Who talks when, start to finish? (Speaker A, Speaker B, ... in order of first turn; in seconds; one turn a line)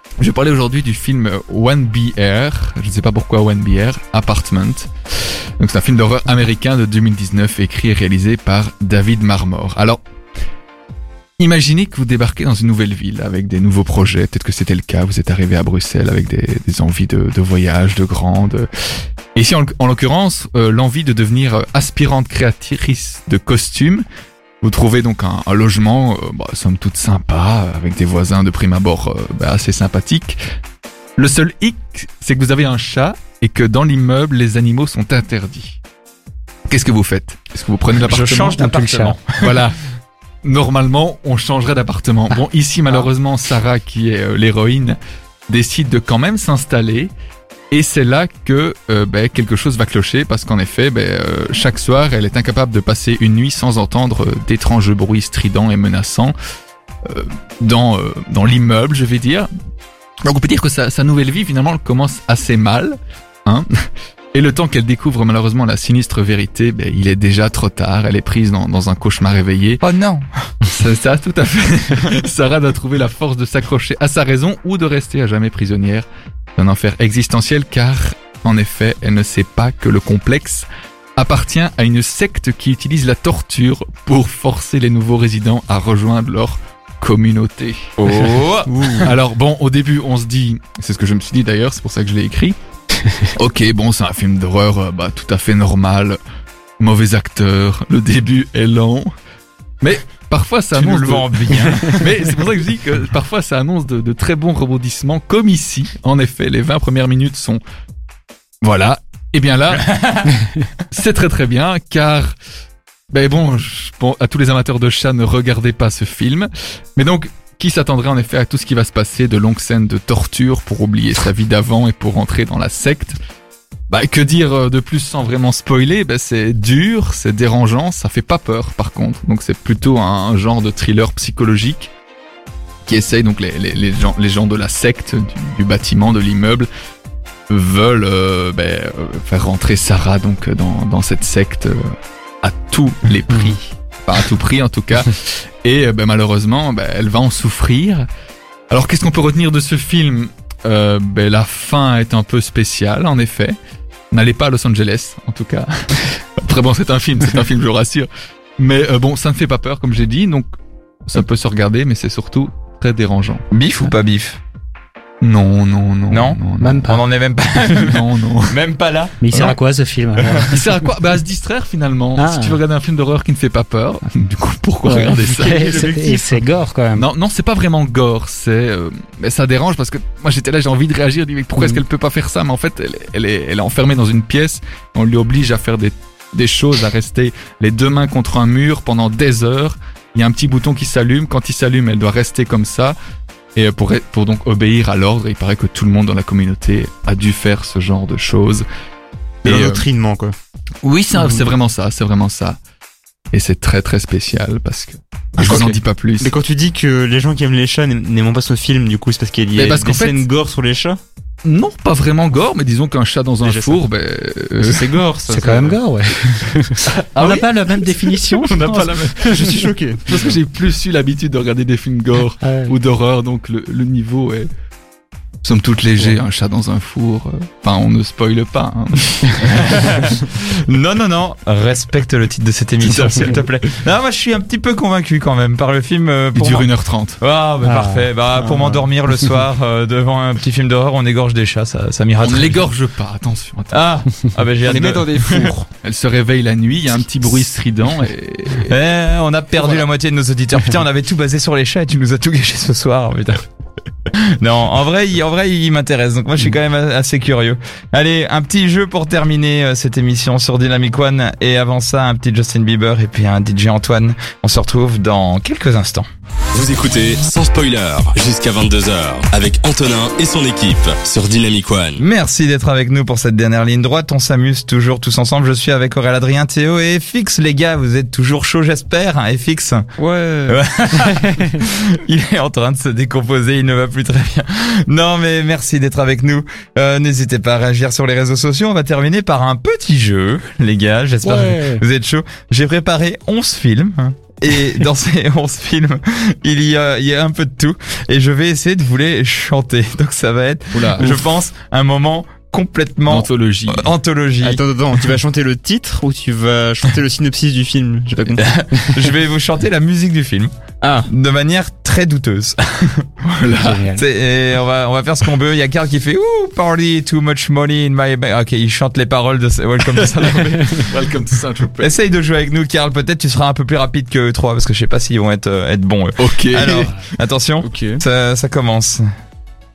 Speaker A: 0.2-10.0
Speaker A: 11.4-18.7
Speaker A: 19.3-24.0
Speaker A: 24.6-30.4
Speaker A: 31.2-35.8
Speaker A: 36.7-39.8
Speaker B: 38.0-39.6
Speaker C: 38.6-39.1
Speaker A: 40.4-47.1
Speaker A: 47.7-56.4
Speaker A: 57.0-59.5
Speaker A: 60.2-69.8
Speaker B: 69.8-70.5
Speaker A: 70.6-80.6
Speaker A: 81.2-87.9
Speaker B: 88.0-89.0
Speaker D: 88.7-89.1
Speaker A: 89.0-92.6
Speaker A: 93.3-96.2
Speaker A: 96.8-99.1
Speaker A: 99.8-107.6
Speaker B: 100.7-102.0
Speaker A: 108.6-112.3
Speaker B: 109.7-110.3
Speaker A: 113.1-123.2
Speaker A: 123.9-131.9
Speaker A: 132.8-136.7
Speaker A: 137.5-148.1
Speaker A: 148.7-153.6
Speaker A: 154.1-160.5
Speaker A: 161.1-163.4
Speaker B: 163.5-164.4
Speaker A: 165.2-166.8
Speaker B: 166.1-169.6
Speaker C: 166.6-167.0
Speaker A: 167.8-168.6
Speaker C: 169.2-170.6
Speaker A: 170.5-176.3
Speaker C: 172.2-172.6
Speaker C: 174.8-177.1
Speaker D: 175.4-176.0
Speaker A: 176.9-192.9
Speaker A: 193.5-198.7
Speaker A: 199.4-199.8
Speaker D: 199.4-200.3
Speaker A: 200.8-202.6
Speaker D: 201.2-201.5
Speaker A: 203.3-206.3
Speaker D: 205.4-211.0
Speaker A: 209.6-210.2
Speaker A: 211.4-214.9
Speaker D: 213.4-213.8
Speaker D: 214.6-215.8
Speaker C: 215.3-219.6
Speaker A: 216.9-224.5
Speaker D: 219.2-220.4
Speaker C: 222.4-222.8
Speaker A: 225.4-229.8
Speaker B: 229.5-242.7
Speaker A: 232.8-233.4
Speaker A: 236.3-237.2
Speaker C: 237.6-238.1
Speaker A: 242.2-243.8
Speaker B: 243.7-245.5
Speaker D: 244.6-245.7
Speaker A: 245.4-248.7
Speaker B: 248.7-253.5
Speaker B: 254.1-266.1
Speaker E: 266.5-272.0
Speaker B: 272.0-279.9
Speaker D: 280.0-280.6
Speaker B: 280.5-304.6
Speaker C: 291.2-291.8
Speaker A: 300.7-301.2
Speaker A: 303.1-303.9
Speaker D: 304.4-308.4
Speaker B: 308.4-310.5
Speaker D: 310.8-311.1
Speaker B: 311.1-321.0
Speaker A: 313.2-313.8
Speaker C: 313.5-314.0
Speaker A: 320.1-321.9
Speaker B: 321.8-329.1
Speaker A: 326.2-326.9
Speaker D: 327.6-328.0